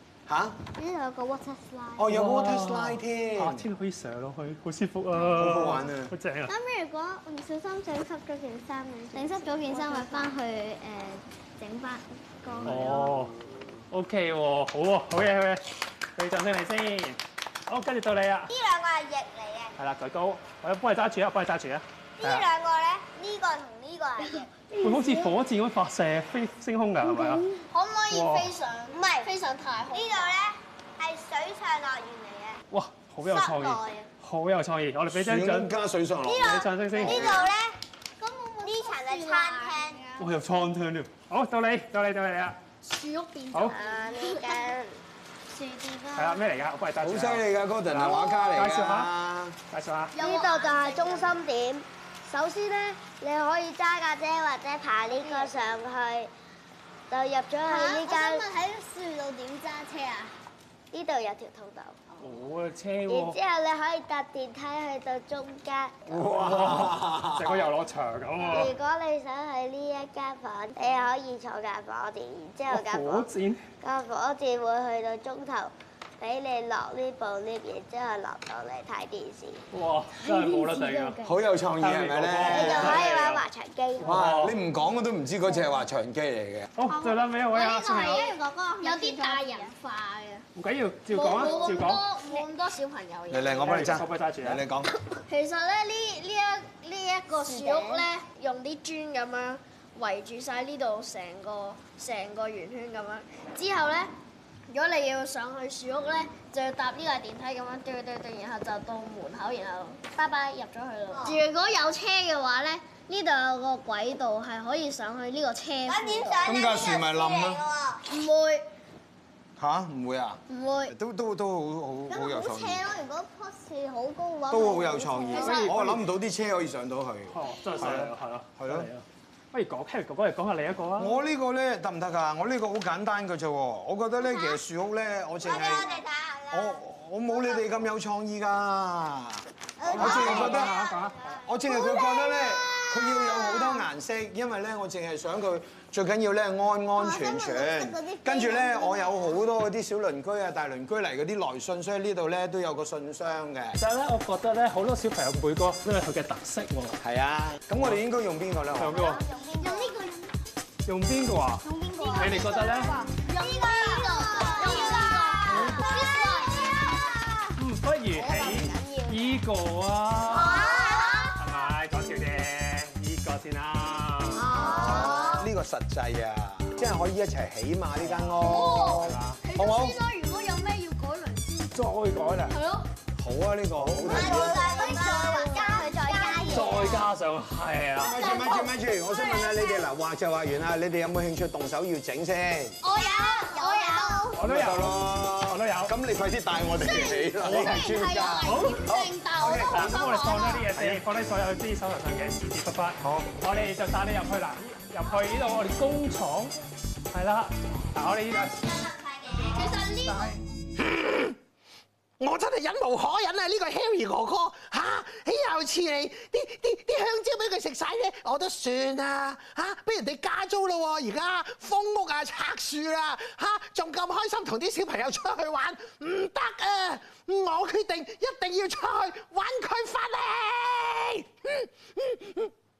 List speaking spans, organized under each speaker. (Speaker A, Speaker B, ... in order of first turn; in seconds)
Speaker A: 0.3-0.6, 2.0-3.7, 5.3-6.1, 35.1-37.5, 47.0-49.6, 66.1-67.6, 81.2-83.2, 84.0-86.7, 93.3-94.9, 116.4-117.7, 119.6-122.9, 124.5-128.9, 131.0-140.8, 141.3-153.8, 157.0-159.0, 174.4-180.0, 183.2-184.9, 188.0-192.8, 194.4-200.0, 200.7-201.0, 203.0-203.3
Speaker B: 0.8-2.0, 6.5-13.3, 18.5-19.7, 22.2-25.3, 28.9-29.3, 29.9-32.6, 33.3-33.9, 36.9-37.8, 38.6-40.2, 43.7-45.0, 50.2-56.3, 57.1-58.5, 60.9-62.0, 63.1-66.1, 68.5-73.3, 73.8-79.6, 80.9-81.3, 82.5-84.1, 87.8-89.8, 97.4-98.1, 111.1-111.4, 115.9-118.0, 122.1-125.6, 134.2-134.5, 135.4-136.8, 139.8-143.8, 147.0-149.4, 158.9-160.0, 161.6-167.5, 168.2-169.4, 170.3-171.3, 184.1-186.9, 193.0-194.4
Speaker C: 2.1-6.5, 12.6-18.5, 19.8-22.5, 24.8-27.5, 28.1-28.5, 32.7-35.7, 36.4-37.4, 40.2-42.6, 43.5-43.8, 46.1-49.1, 49.7-50.1, 62.2-63.4, 66.1-68.7, 72.7-73.7, 79.7-81.2, 81.8-83.4, 84.0-84.6, 86.8-88.3, 90.5-92.0, 93.6-94.6, 125.4-125.8, 127.3-131.2, 139.9-141.4, 153.8-157.0, 158.8-159.2, 160.9-161.6, 162.2-163.0, 165.5-165.8, 167.6-170.8, 171.3-175.2, 179.0-179.4, 181.7-182.6, 186.5-188.2, 194.3-195.9, 198.4-198.8, 199.7-206.6, 207.1-208.6
Speaker D: 9.1-10.4, 27.6-30.4, 33.5-33.8, 36.4-37.5, 38.2-40.1, 42.8-44.8, 45.5-46.4, 50.1-51.3, 52.5-52.8, 55.1-55.6, 57.7-60.3, 86.9-90.5, 91.1-94.0, 95.3-104.1, 104.7-116.5, 118.0-118.7, 120.5-120.9, 125.3-125.9, 135.7-136.0, 159.6-160.3, 162.0-162.4, 163.2-167.2, 170.3-171.4, 174.3-175.5, 178.4-181.8, 182.5-182.9, 184.1-187.0, 188.1-189.9, 192.8-194.4, 196.8-200.7, 209.2-210.4
Speaker E: 210.8-211.3, 212.2-232.5